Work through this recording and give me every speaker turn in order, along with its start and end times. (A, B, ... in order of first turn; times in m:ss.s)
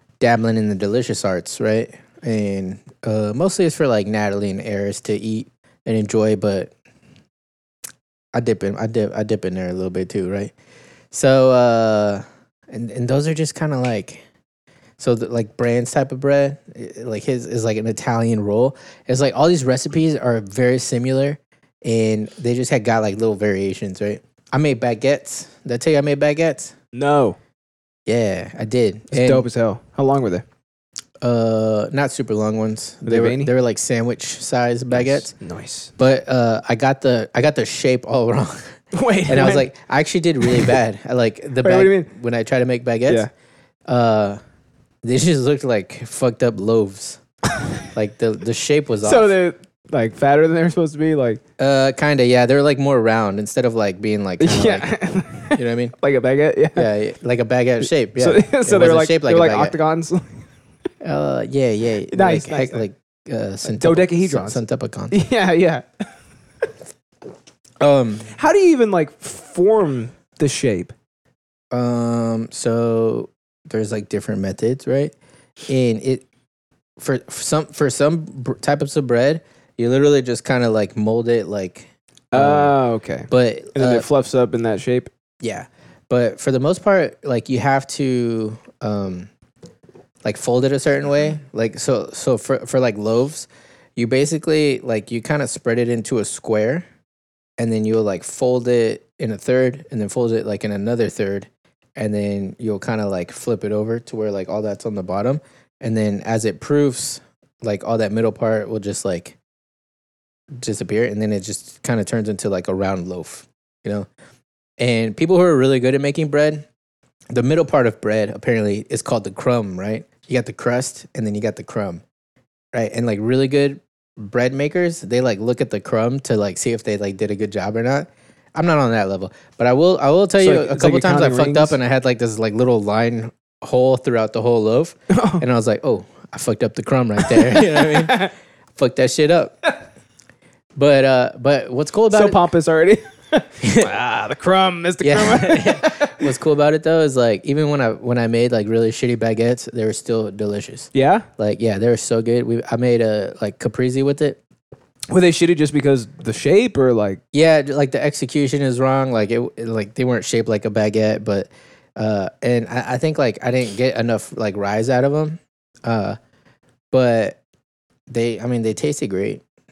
0:00.2-0:06.7 A
0:08.3-0:10.5 A
0:11.1-0:14.2 A
0:15.0-0:26.7 A
0:26.9-0:27.4 B
0:28.0-0:29.4 A
0:29.1-0:30.4 B
0:31.2-0:35.3 A
0:33.0-0:33.5 B
0:34.9-0:35.9 B
0:36.0-0:38.7 A
0:38.9-0:39.7 B
0:39.3-0:43.3 A
0:40.5-0:40.7 B
0:41.6-0:42.1 B
0:43.9-0:44.4 A
0:45.0-0:47.2 A
0:47.9-0:49.3 A
0:49.0-0:51.4 B
0:51.6-0:54.9 A
0:54.4-0:56.9 B
0:55.5-0:55.9 A
0:56.7-0:59.8 A
0:57.8-1:00.4 B
1:01.0-1:05.2 A
1:02.1-1:02.8 B
1:03.7-1:05.8 B
1:07.8-1:08.3 A
1:08.3-1:10.9 B
1:11.7-1:15.1 A
1:15.7-1:16.2 A
1:17.0-1:22.8 A
1:22.3-1:25.1 B
1:23.3-1:24.1 A
1:25.4-1:29.3 A
1:30.2-1:36.8 A
1:37.6-1:49.4 A
1:50.5-1:54.1 A
1:54.8-1:56.6 A
1:57.3-2:02.0 A
2:02.7-2:19.6 A
2:10.4-2:11.8 B
2:15.1-2:15.4 B
2:17.2-2:18.3 B
2:20.7-2:22.4 A
2:22.1-2:26.2 B
2:23.6-2:23.9 A
2:25.0-2:34.4 A
2:30.9-2:31.3 B
2:35.1-2:37.2 B
2:37.3-2:46.2 A
2:46.9-2:47.4 A
2:48.1-2:49.4 A